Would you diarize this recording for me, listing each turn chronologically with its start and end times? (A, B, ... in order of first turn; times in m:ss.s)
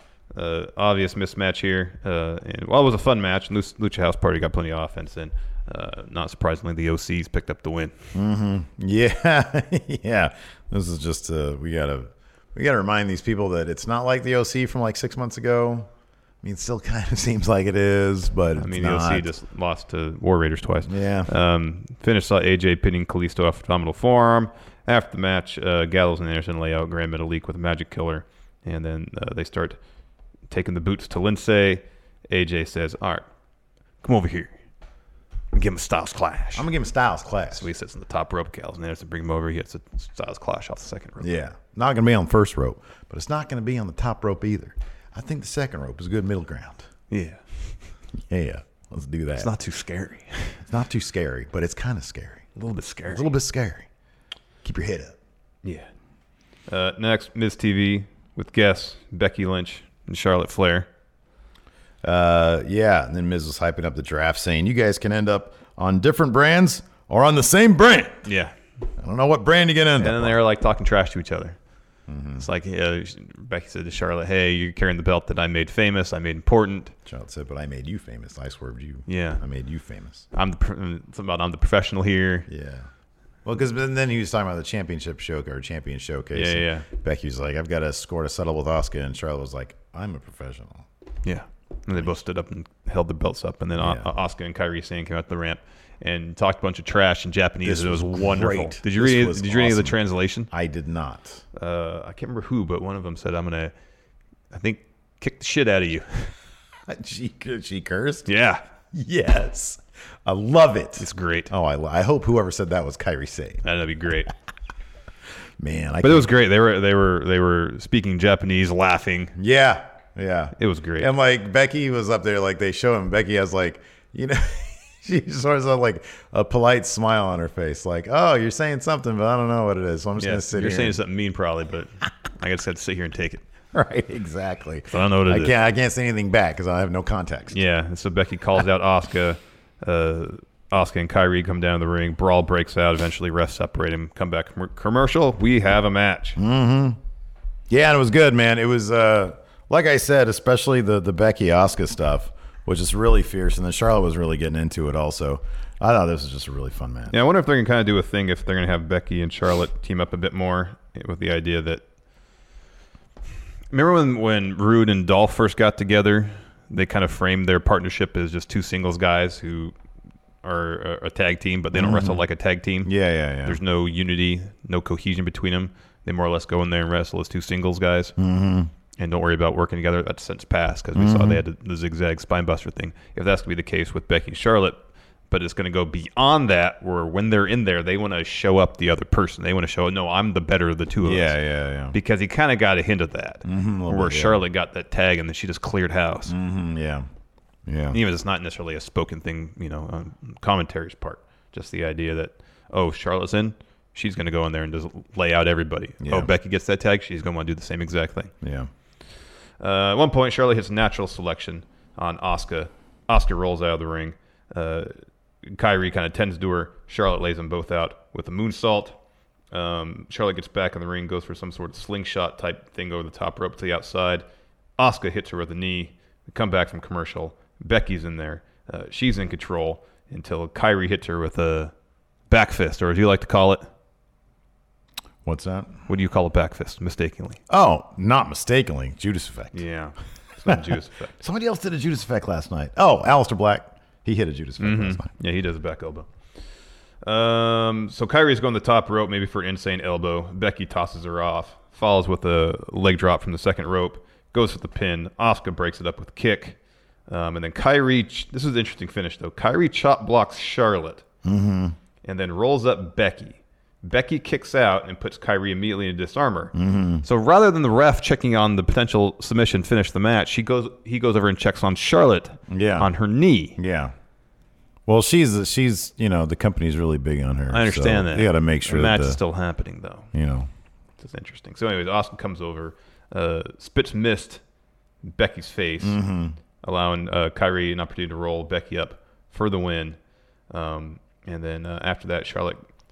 0:00.3-0:08.0 A
0:08.1-0:15.9 B
0:16.4-0:19.3 B
0:18.6-0:29.8 A
0:20.9-0:21.3 B
0:30.5-0:33.2 A
0:34.0-0:34.5 A
0:35.5-0:36.7 A
0:36.6-0:37.7 B
0:37.6-0:41.3 A
0:41.2-0:46.9 B
0:47.1-0:47.4 A
0:48.3-0:49.5 B
0:49.4-0:50.6 A
0:50.6-0:52.4 B
0:52.6-0:53.3 A
0:53.1-0:53.9 B
0:54.6-0:55.2 B
0:56.7-1:00.9 A
1:02.0-1:08.2 B
1:08.2-1:08.5 A
1:09.0-1:10.4 B
1:10.0-1:11.6 A
1:12.1-1:12.4 B
1:12.4-1:16.9 A
1:17.1-1:20.3 B
1:19.1-1:19.4 A
1:20.3-1:22.5 A
1:22.5-1:22.9 B
1:23.4-1:30.9 B
1:26.3-1:26.9 A
1:31.2-1:40.5 A
1:33.8-1:34.1 B
1:37.6-1:40.0 B
1:40.5-1:41.4 B
1:41.6-1:43.7 A
1:44.5-1:46.3 A
1:46.9-1:48.3 B
1:48.3-1:48.6 A
1:48.9-1:53.6 B
1:51.0-1:51.5 A
1:53.6-1:54.3 A
1:55.6-1:56.3 B
1:56.0-1:59.3 A
1:59.4-2:11.0 B
2:00.6-2:01.1 A
2:10.2-2:13.4 A
2:13.7-2:17.6 B
2:14.9-2:15.5 A
2:17.5-2:26.4 A
2:26.4-2:27.0 B
2:27.7-2:37.2 B
2:37.1-2:41.8 A
2:43.7-2:49.7 A
2:50.4-2:52.9 A
2:51.7-2:52.2 B
2:52.8-2:53.6 B
2:53.4-2:58.1 A
2:58.2-2:58.7 B
2:59.0-3:04.8 A
3:01.0-3:01.4 B
3:05.3-3:11.4 A
3:11.0-3:12.0 B
3:11.9-3:16.4 A
3:13.4-3:14.4 B
3:16.3-3:17.1 B
3:17.7-3:18.0 B
3:17.9-3:28.3 A
3:26.0-3:26.3 B
3:28.4-3:28.7 B
3:29.6-3:39.0 A
3:39.5-3:44.2 A
3:44.8-3:51.7 A
3:52.3-3:53.7 A
3:55.2-3:55.8 B
3:55.9-3:57.4 A
3:57.5-3:59.6 B
3:59.5-4:01.1 A
4:01.2-4:05.1 B
4:04.6-4:06.1 A
4:07.0-4:16.6 A
4:17.1-4:21.0 A
4:21.2-4:21.8 B
4:22.0-4:33.6 A
4:26.6-4:27.0 B
4:32.5-4:32.9 B
4:33.6-4:33.9 B
4:34.9-4:39.2 B
4:37.5-4:40.1 A
4:40.1-4:40.5 B
4:41.0-4:44.4 A
4:45.0-4:46.0 A
4:45.8-4:46.4 B
4:46.6-4:50.0 A
4:50.5-4:52.6 A